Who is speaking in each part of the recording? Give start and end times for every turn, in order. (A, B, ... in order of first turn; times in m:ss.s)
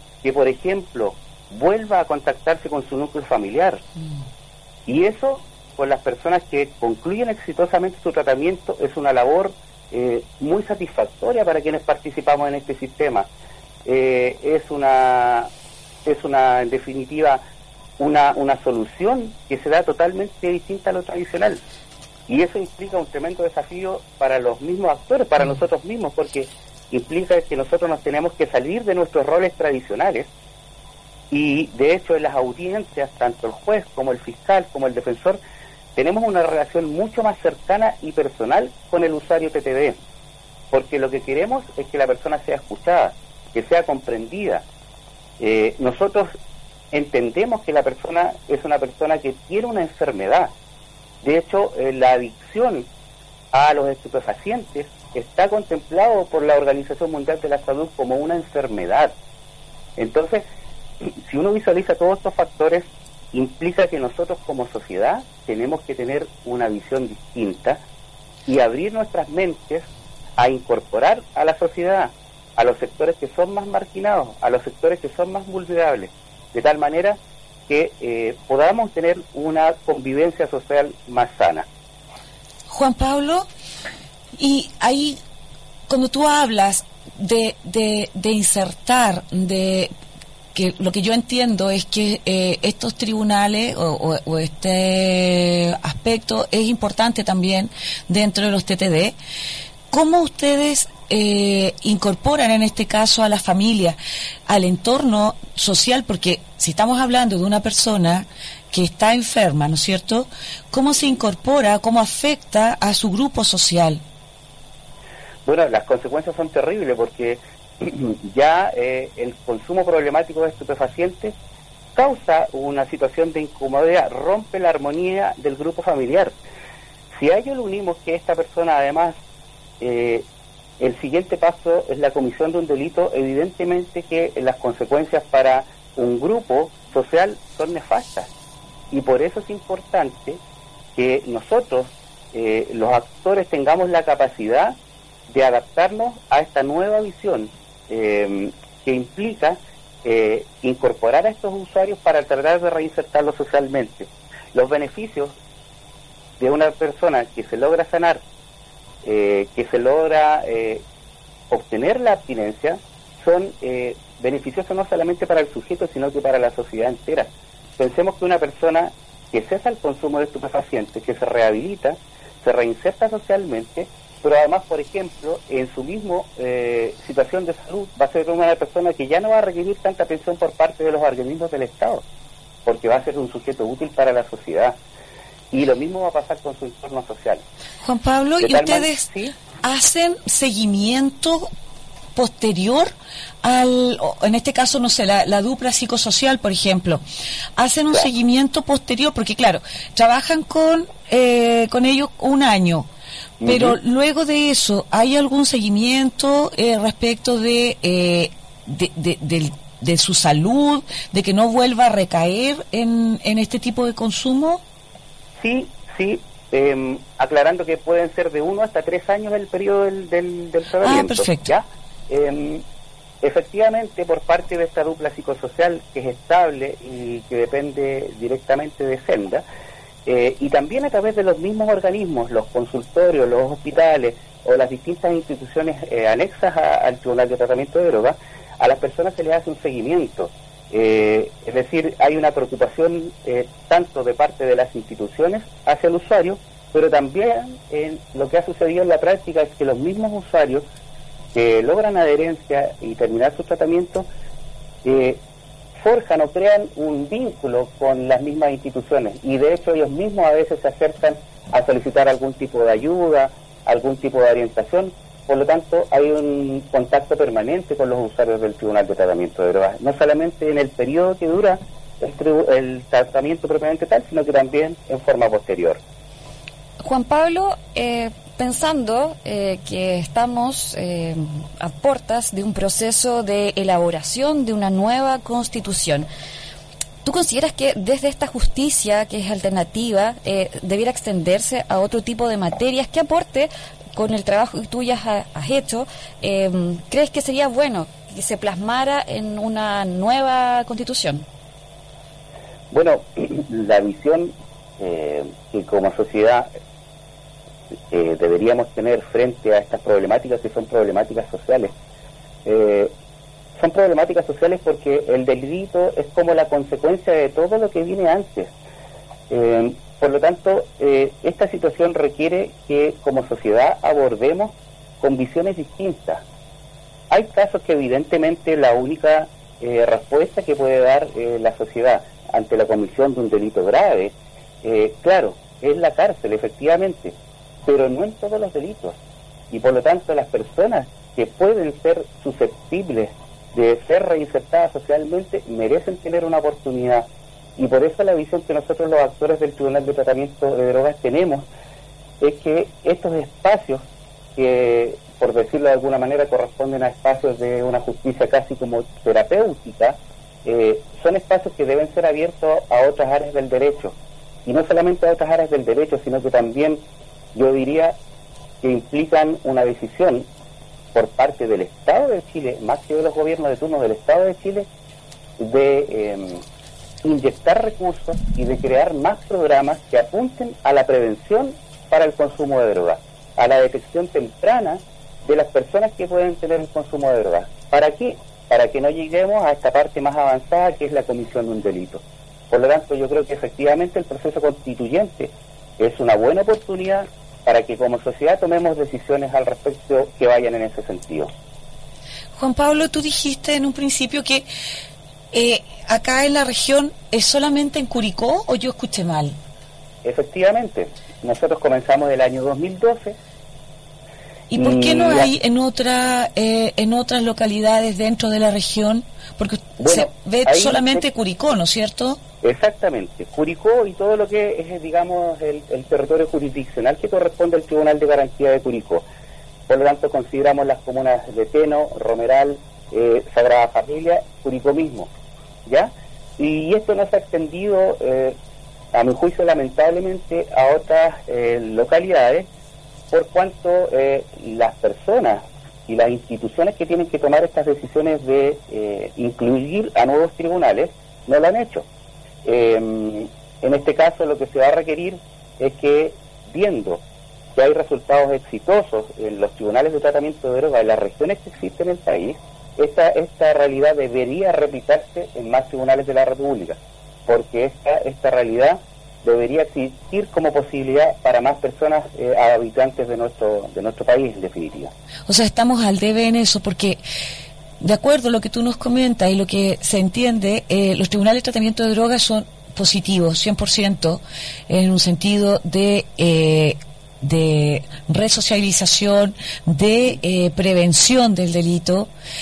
0:00.2-0:03.8 A
0:04.9-0:13.3 A
0:13.8-0:15.5 A
0:16.0-0:17.4 A
0:18.0-0:21.6 A
0:22.3-0:30.3 A
0:31.3-0:35.4 A
0:36.0-0:40.0 A
0:40.7-0:44.6 A
0:45.4-0:46.3 A
0:46.9-0:50.5 A
0:51.2-0:52.9 A
0:53.5-0:59.1 A
1:00.0-1:00.4 A
1:01.0-1:07.8 A
1:08.4-1:09.8 A
1:10.4-1:21.6 A
1:22.7-1:23.5 B
1:24.4-1:25.2 B
1:25.9-1:29.9 B
1:30.5-1:39.2 B
1:39.9-1:54.0 B
1:55.4-2:01.3 A
2:01.9-2:06.4 A
2:07.2-2:09.2 A
2:09.8-2:10.2 A
2:10.8-2:18.3 A
2:18.9-2:20.4 A
2:21.0-2:24.8 A
2:25.3-2:35.3 A
2:36.4-2:38.2 A
2:39.0-2:40.8 A
2:41.5-3:02.0 A
3:02.6-3:04.8 A
3:05.5-3:07.4 A
3:07.8-3:11.5 B
3:08.4-3:09.3 A
3:12.1-3:17.0 B
3:17.6-3:22.9 B
3:23.4-3:23.8 A
3:23.4-3:34.6 B
3:35.4-3:42.6 A
3:40.8-3:41.5 B
3:43.2-3:49.4 A
3:50.0-4:10.6 A
4:11.3-4:14.1 A
4:14.8-4:15.2 A
4:15.8-4:35.8 A
4:36.8-4:46.1 C
4:47.0-5:01.2 C
5:02.7-5:06.5 A
5:07.9-5:11.7 A
5:12.4-5:12.9 A
5:13.6-5:18.5 A
5:19.3-5:26.2 A
5:27.1-5:39.0 A
5:39.5-5:51.5 A
5:52.2-5:53.8 A
5:54.4-6:03.9 A
6:04.4-6:06.8 A
6:07.3-6:08.0 A
6:08.6-6:10.3 A
6:10.9-6:14.7 A
6:15.4-6:16.4 A
6:17.0-6:41.3 A
6:42.4-6:44.5 B
6:45.3-6:49.4 B
6:50.0-6:53.2 A
6:54.5-7:02.2 B
6:54.6-6:55.3 A
6:59.8-7:01.0 A
7:02.4-7:09.0 A
7:09.7-7:15.1 A
7:15.6-7:18.4 A
7:18.9-7:22.5 A
7:23.1-7:31.8 A
7:32.4-7:37.0 A
7:37.5-7:54.9 A
7:55.3-7:57.0 B
7:57.8-8:12.1 B